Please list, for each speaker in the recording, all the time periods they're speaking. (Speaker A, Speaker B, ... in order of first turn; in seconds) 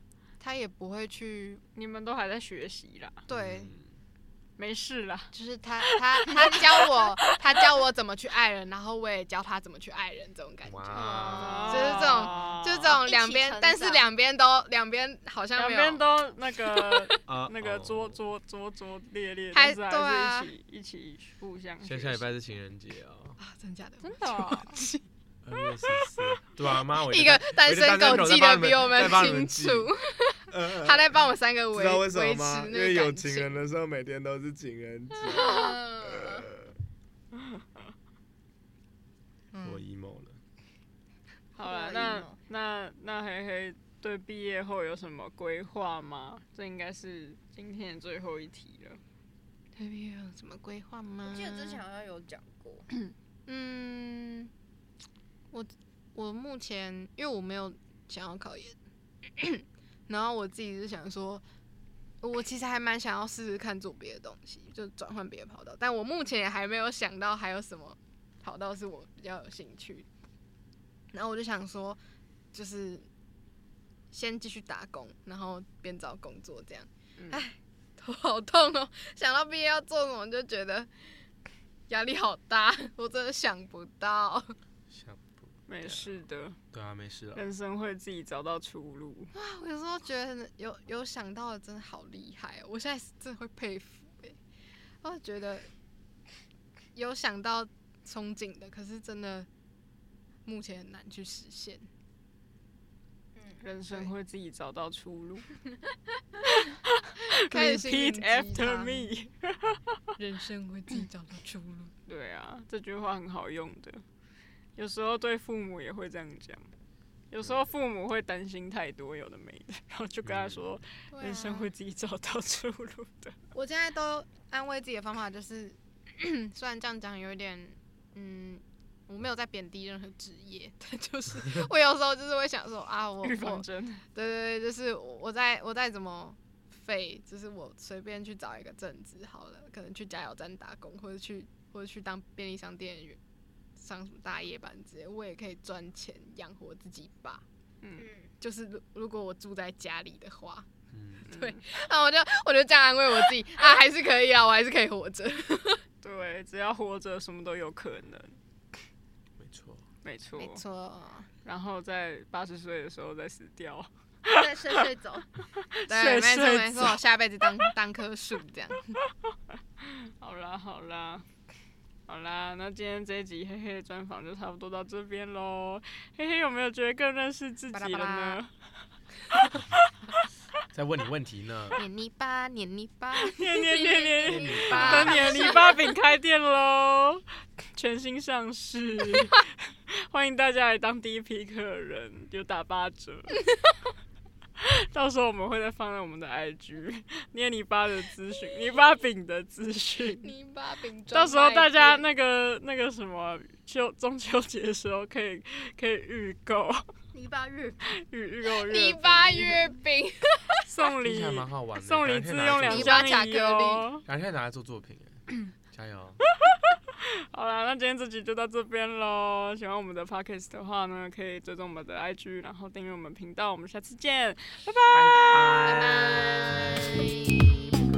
Speaker A: 0.4-1.6, 3.3-3.7, 5.3-16.1, 16.7-17.1, 19.5-20.5, 23.4-25.1, 25.6-26.3, 27.0-33.6, 35.3-36.5, 39.5-39.8, 49.8-51.8, 53.5-54.5, 55.5-58.8, 59.4-61.4, 62.2-70.1, 71.1-72.0, 72.5-73.1, 74.1-80.9, 81.9-84.5, 89.3-94.4, 95.0-95.7, 97.0-99.5, 100.5-101.9, 107.3-109.1, 110.2-111.9, 121.1-121.7, 123.5-143.2, 143.8-147.4, 148.4-150.7, 151.3-155.8, 160.4-161.3, 165.9-169.0, 177.7-178.4, 179.3-179.6, 181.8-185.9, 200.2-202.1, 208.5-210.7, 212.6-213.9
Speaker B: 1.8-3.2, 4.6-5.3, 5.8-7.1, 11.4-13.0, 15.6-22.2, 24.0-24.8, 41.6-49.0, 85.7-86.6, 87.3-89.3, 103.6-105.5, 106.5-109.8, 112.1-114.0, 114.8-116.7, 117.3-123.4, 133.2-134.0, 147.8-148.1, 151.3-151.6, 156.0-158.4, 160.0-160.6, 161.4-164.9, 165.6-167.0, 169.8-171.2, 172.1-178.5, 183.2-187.2, 187.8-193.4, 194.6-200.3, 201.1-206.8, 207.8-209.7, 210.7-214.0, 216.4-225.7
Speaker C: 3.3-3.9, 10.7-11.5, 17.3-18.2, 21.8-23.4, 25.4-29.9, 30.5-31.1, 31.7-36.7, 39.6-40.4, 84.9-86.2, 86.7-87.5, 120.2-120.6, 150.9-151.2, 159.4-159.8, 180.7-181.8, 184.3-185.2, 211.0-213.2, 214.1-215.2, 215.7-216.2, 224.9-227.2
Speaker D: 10.9-14.1, 41.6-42.4, 51.2-52.9, 103.4-103.6, 148.0-148.3, 164.3-165.3, 185.2-185.7, 207.1-208.0, 225.9-226.7